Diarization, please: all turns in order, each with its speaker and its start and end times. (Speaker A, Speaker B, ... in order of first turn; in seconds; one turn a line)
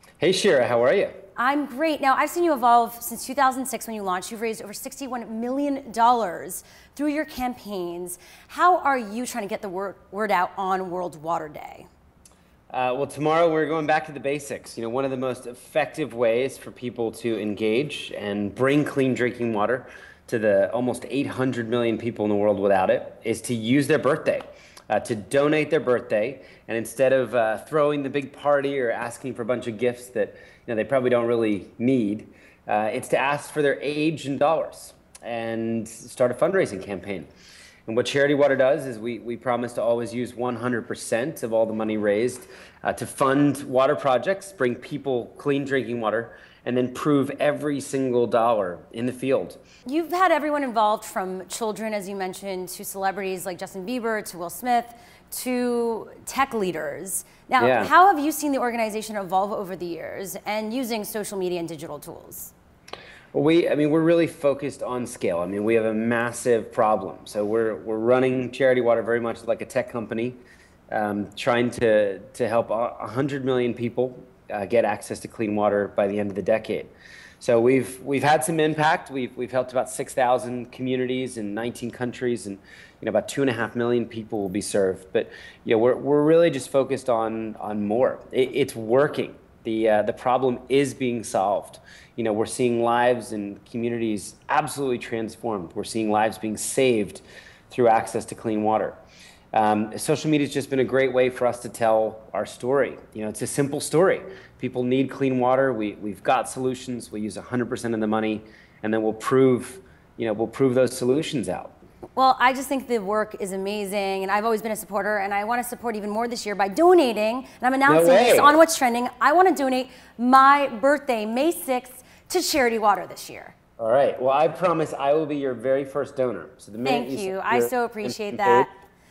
Speaker A: 0.2-1.1
Speaker B: 1.4-11.9
Speaker A: 12.7-37.3
Speaker A: 37.9-49.6
Speaker B: 49.9-62.5
Speaker A: 57.6-57.9
Speaker A: 63.3-99.0
Speaker A: 99.5-111.7
Speaker B: 112.2-123.5
Speaker A: 117.8-118.6
Speaker A: 123.8-128.7
Speaker B: 126.8-128.7